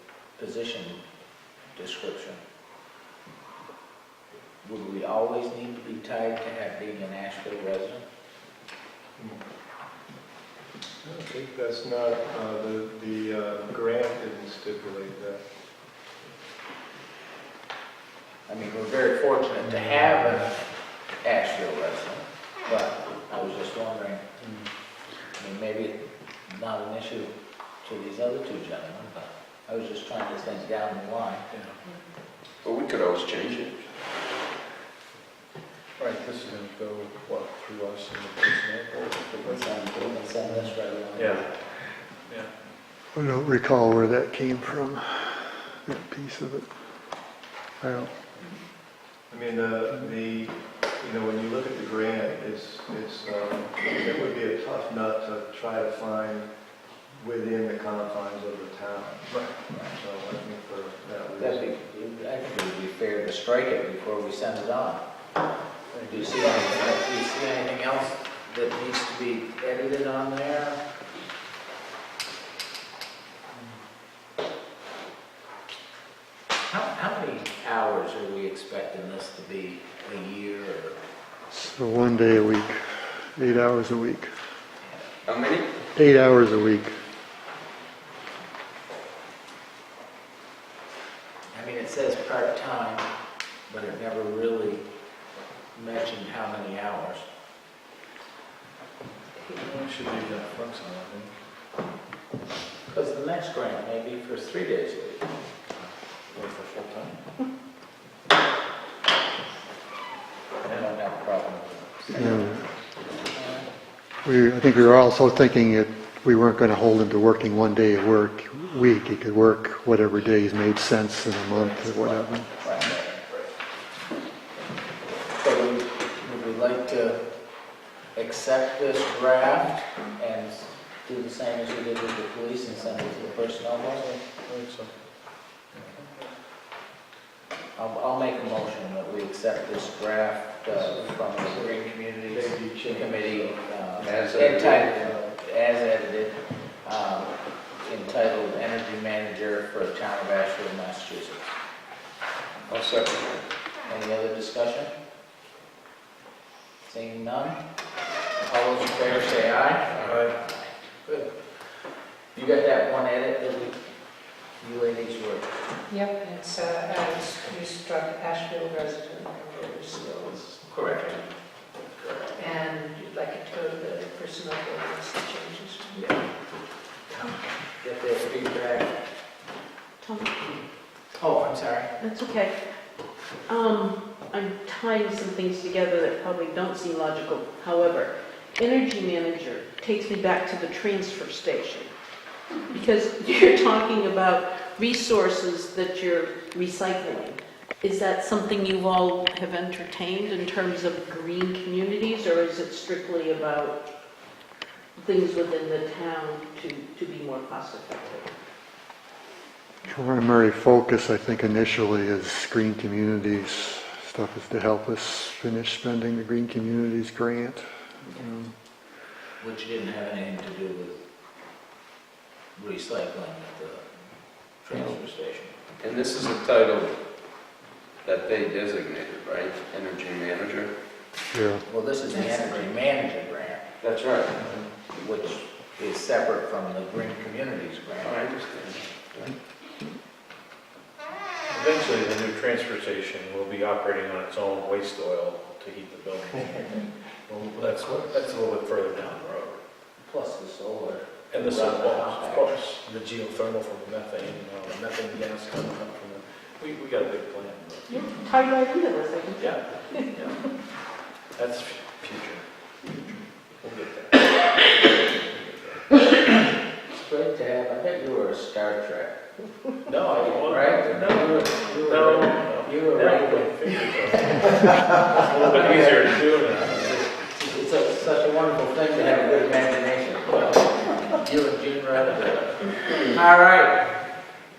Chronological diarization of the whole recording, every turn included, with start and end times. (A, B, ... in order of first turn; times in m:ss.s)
0:00.4-0:01.0 A
0:01.7-0:02.4 A
0:04.6-0:08.0 A
0:09.2-0:09.4 B
0:11.0-0:15.4 B
0:18.5-0:24.2 A
0:25.4-0:31.4 A
0:31.5-0:31.8 C
0:32.6-0:33.9 D
0:36.0-0:39.5 C
0:39.3-0:41.5 A
0:41.2-0:42.5 C
0:43.1-0:48.1 E
0:49.3-1:01.7 B
1:01.4-1:05.0 A
1:05.9-1:06.9 C
1:06.1-1:10.8 A
1:16.7-1:21.0 A
1:21.5-1:24.3 E
1:25.2-1:25.8 D
1:25.9-1:27.0 E
1:31.5-1:33.1 A
1:33.7-1:34.8 A
1:35.7-1:37.2 A
1:39.6-1:41.3 B
1:42.9-1:45.2 A
1:46.3-1:47.2 C
1:50.6-1:52.5 A
1:52.1-1:52.7 E
1:53.3-1:53.6 A
1:54.2-2:02.8 E
2:01.5-2:03.4 A
2:05.4-2:07.2 A
2:08.1-2:14.1 A
2:13.9-2:14.9 C
2:17.8-2:31.6 A
2:20.7-2:25.4 B
2:24.0-2:24.9 D
2:32.7-2:33.4 D
2:33.9-2:34.9 A
2:36.8-2:37.6 A
2:38.4-2:41.3 A
2:42.3-2:43.8 A
2:44.5-2:45.6 A
2:45.9-2:51.2 F
2:50.7-2:51.2 A
2:51.9-2:52.4 A
2:52.3-2:56.2 F
2:57.1-2:59.0 A
3:00.0-3:00.5 G
3:01.2-3:01.9 A
3:02.0-3:11.9 G
3:12.7-3:23.9 G
3:25.0-3:28.3 G
3:29.9-3:38.6 E
3:39.4-3:41.0 A
3:42.6-3:45.5 A
3:45.8-3:46.9 D
3:48.0-3:50.7 D
3:51.3-3:51.6 E
3:51.7-3:53.7 A
3:53.8-3:54.4 D
3:55.0-3:58.2 A
3:58.0-3:59.3 D
4:01.5-4:09.6 C
4:07.4-4:08.2 B
4:10.0-4:12.5 A
4:11.3-4:18.1 C
4:17.9-4:20.3 G
4:19.4-4:20.4 C
4:21.3-4:26.0 C
4:26.9-4:29.2 A
4:29.8-4:37.0 C
4:30.2-4:33.5 A
4:34.2-4:44.1 A